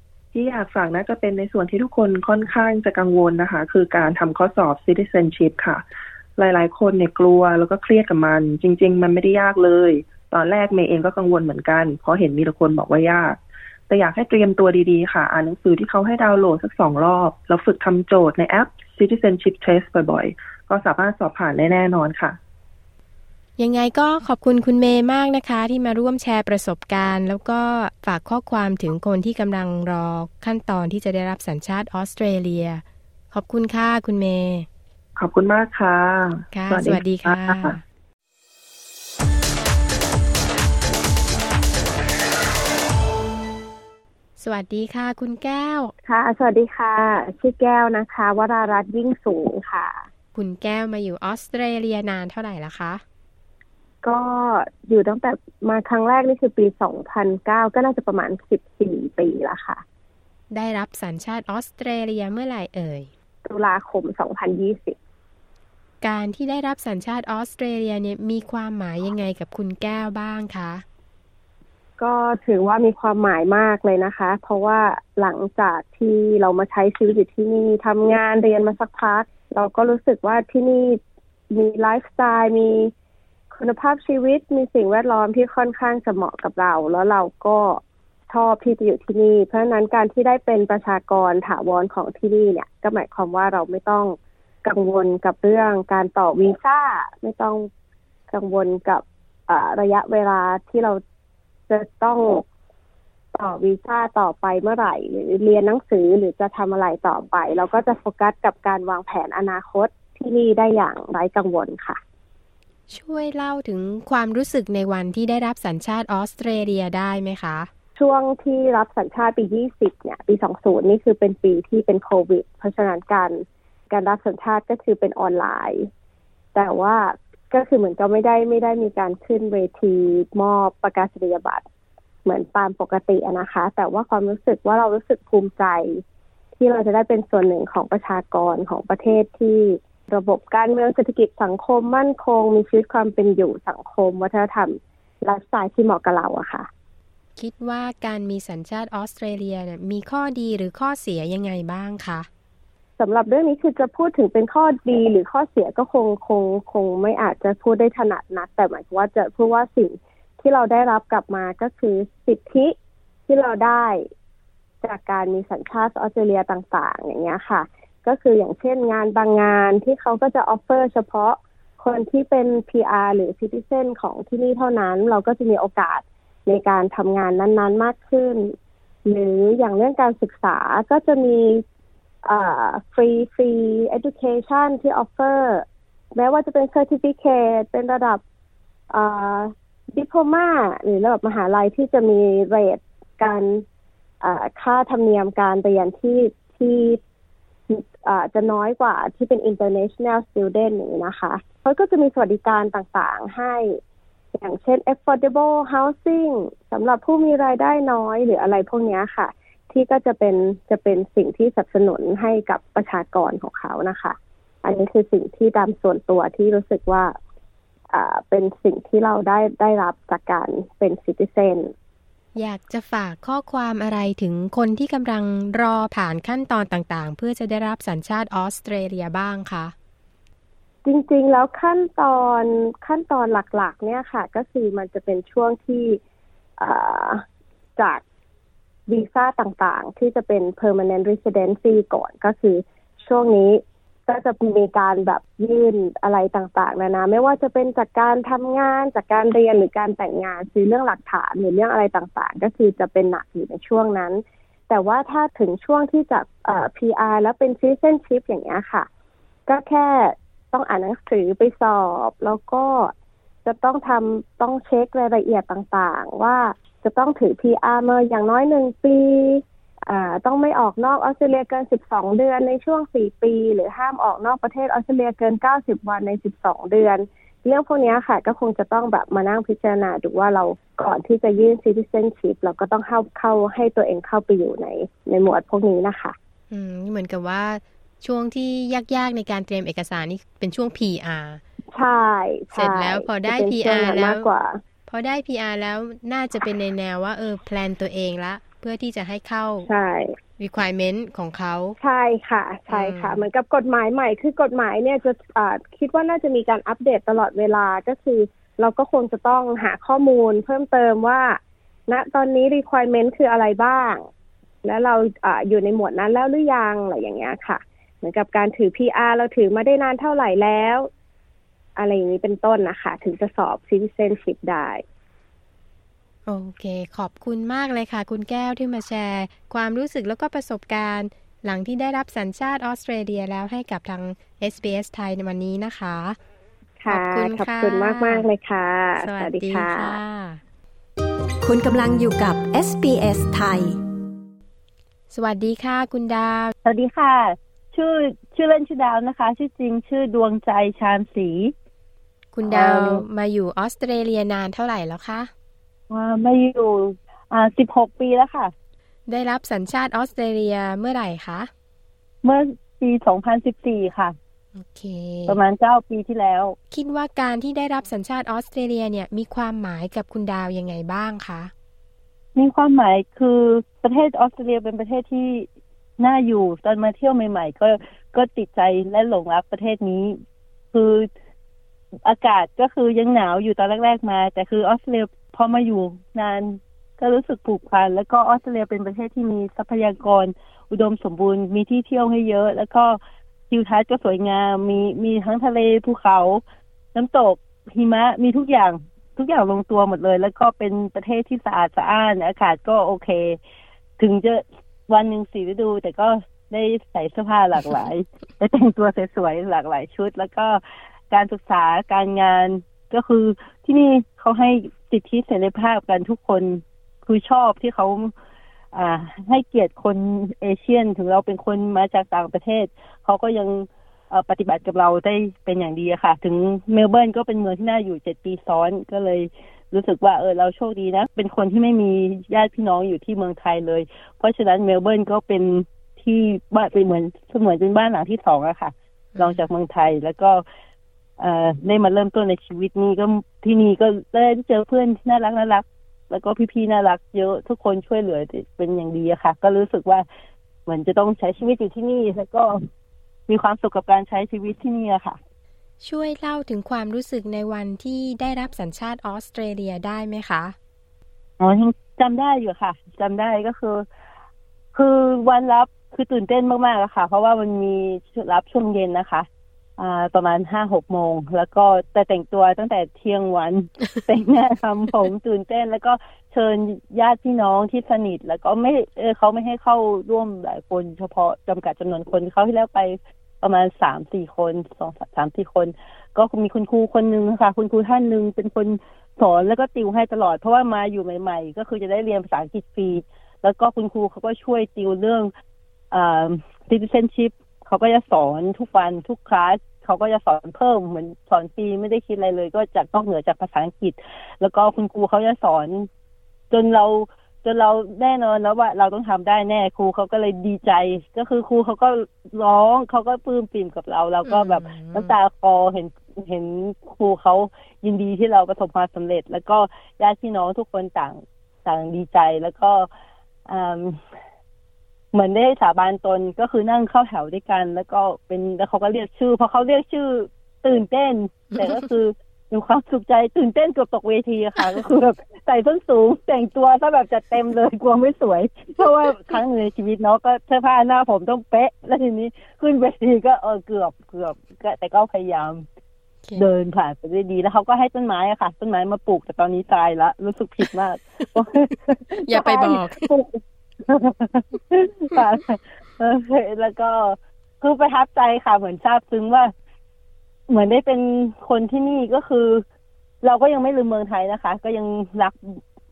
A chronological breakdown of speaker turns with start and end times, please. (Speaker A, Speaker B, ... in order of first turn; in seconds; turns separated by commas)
Speaker A: 0.3-5.8, Speaker A: 6.4-22.4, Speaker B: 23.6-34.7, Speaker A: 35.1-37.8, Speaker B: 36.5-37.8, Speaker B: 44.4-45.9, Speaker C: 46.0-50.0, Speaker B: 50.3-53.0, Speaker C: 54.0-59.8, Speaker B: 60.5-63.1, Speaker C: 63.4-65.0, Speaker B: 66.0-70.8, Speaker C: 72.0-81.0, Speaker C: 81.5-82.9, Speaker C: 83.5-97.7, Speaker C: 98.3-101.0, Speaker C: 101.7-102.4, Speaker C: 103.3-112.0, Speaker B: 112.9-117.7, Speaker C: 118.0-125.9, Speaker C: 126.5-131.6, Speaker C: 132.2-136.0, Speaker C: 136.6-146.7, Speaker B: 147.3-152.3, Speaker C: 153.0-162.7, Speaker C: 163.3-164.0, Speaker C: 164.8-178.5, Speaker C: 179.1-181.6, Speaker C: 182.2-188.2, Speaker C: 188.9-193.6, Speaker C: 194.2-197.0, Speaker C: 197.7-203.7, Speaker C: 204.3-217.1, Speaker C: 217.9-221.7, Speaker B: 222.3-229.7, Speaker C: 230.8-236.0, Speaker C: 236.6-237.2, Speaker C: 237.8-238.0, Speaker C: 238.9-258.9, Speaker C: 259.5-262.9, Speaker C: 263.4-286.1, Speaker B: 286.5-291.4, Speaker C: 291.7-294.6, Speaker B: 292.5-294.3, Speaker B: 294.9-299.7, Speaker C: 299.6-300.1, Speaker B: 300.4-301.8, Speaker C: 301.8-314.0, Speaker B: 302.7-303.2, Speaker C: 314.6-320.9, Speaker C: 321.8-324.8, Speaker B: 326.2-336.2, Speaker C: 336.8-340.0, Speaker B: 336.9-338.3, Speaker B: 339.0-340.4, Speaker D: 341.4-343.8, Speaker B: 345.1-346.5, Speaker E: 346.6-351.5, Speaker B: 352.3-355.3, Speaker E: 352.4-353.0, Speaker E: 355.9-358.5, Speaker B: 359.1-361.5, Speaker E: 362.2-364.2, Speaker B: 364.5-365.4, Speaker E: 365.3-366.6, Speaker B: 366.7-371.5, Speaker E: 372.3-375.5, Speaker E: 376.0-380.2, Speaker E: 380.7-381.1, Speaker E: 382.0-396.4, Speaker E: 396.9-403.4, Speaker E: 404.0-418.1, Speaker E: 418.7-440.4, Speaker B: 439.1-439.4, Speaker E: 441.2-450.1, Speaker E: 450.6-452.6, Speaker E: 453.3-455.2, Speaker B: 455.8-460.6, Speaker E: 461.4-463.9, Speaker E: 464.7-495.3, Speaker E: 495.9-505.9, Speaker E: 506.5-522.9, Speaker B: 514.2-515.1, Speaker E: 523.5-524.0, Speaker E: 525.1-545.7, Speaker B: 531.5-531.9, Speaker E: 546.4-559.5, Speaker B: 552.2-553.1, Speaker E: 560.5-562.6, Speaker E: 563.2-565.6